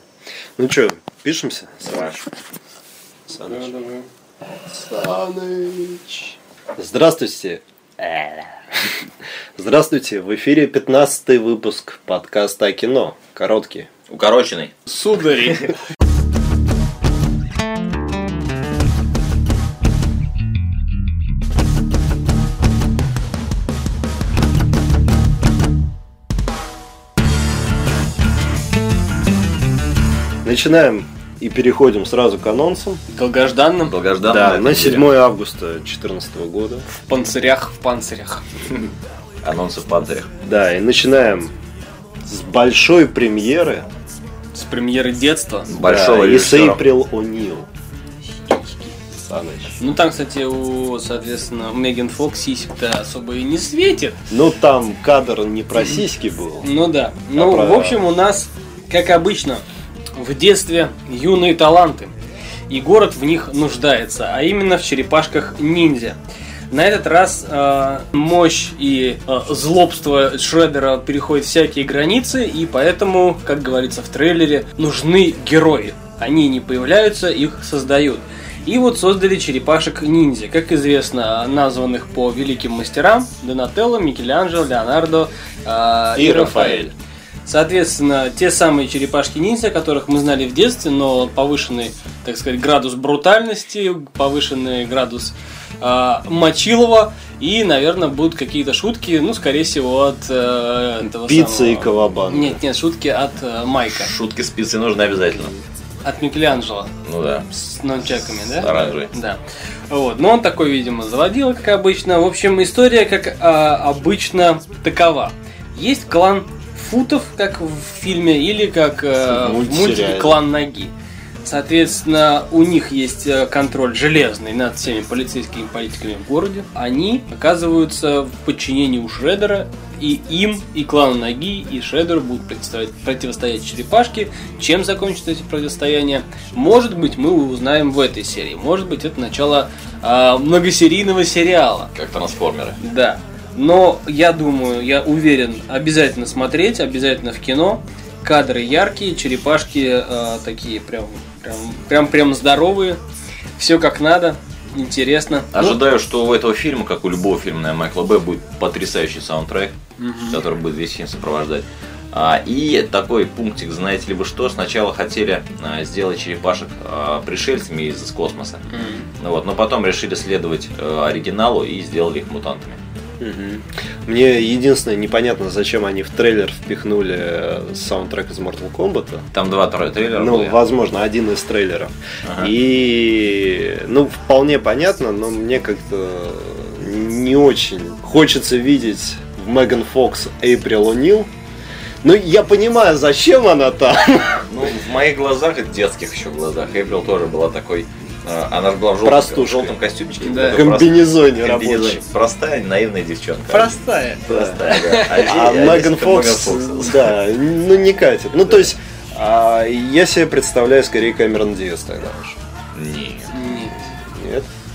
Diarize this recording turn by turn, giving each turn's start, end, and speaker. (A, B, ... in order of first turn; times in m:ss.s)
0:00.6-0:02.2 A
0:01.8-0:02.2 B
0:03.3-0:03.7 A
0:03.4-0:04.0 C
0:04.7-0:08.6 A
0:09.6-0:13.9 A
0:14.1-0:14.8 B
0:14.9-0:15.7 C
0:15.3-0:15.6 B
0:30.4-0:33.0 A
0:33.1-0:33.9 C
0:33.8-0:35.1 B
0:34.2-0:36.9 A
0:37.0-0:38.4 C
0:39.4-0:40.3 B
0:40.4-0:41.5 A
0:42.2-0:43.9 A
0:44.5-0:45.7 C
0:45.7-0:46.9 B
0:45.8-0:47.7 A
0:48.5-0:48.9 C
0:49.1-0:49.8 A
0:49.8-0:54.2 C
0:54.3-0:56.7 A
0:56.6-0:59.6 C
0:57.3-0:58.1 A
1:00.2-1:02.1 C
1:02.7-1:06.2 C
1:06.7-1:26.9 C
1:26.2-1:26.9 A
1:27.4-1:44.1 C
1:41.2-1:42.6 A
1:43.9-1:45.6 B
1:46.0-1:46.9 C
1:47.0-1:47.5 B
1:47.5-2:00.9 C
1:48.5-1:49.1 B
1:59.2-2:00.4 A
2:01.4-2:21.9 C
2:21.9-2:22.8 B
2:22.8-2:33.0 C
2:33.6-2:35.8 C
2:35.5-2:48.6 B
2:40.0-2:40.4 C
2:48.7-2:49.1 C
2:49.2-2:52.8 B
2:53.2-2:59.2 A
2:59.3-3:00.6 B
3:00.1-3:11.3 A
3:02.2-3:02.5 B
3:12.0-3:14.4 A
3:14.5-3:27.2 B
3:19.0-3:19.8 A
3:20.2-3:20.6 C
3:20.3-3:22.0 A
3:23.5-3:25.3 C
3:24.3-3:24.6 A
3:25.1-3:32.4 A
3:32.7-3:33.3 B
3:33.3-3:33.7 C
3:34.1-3:34.5 A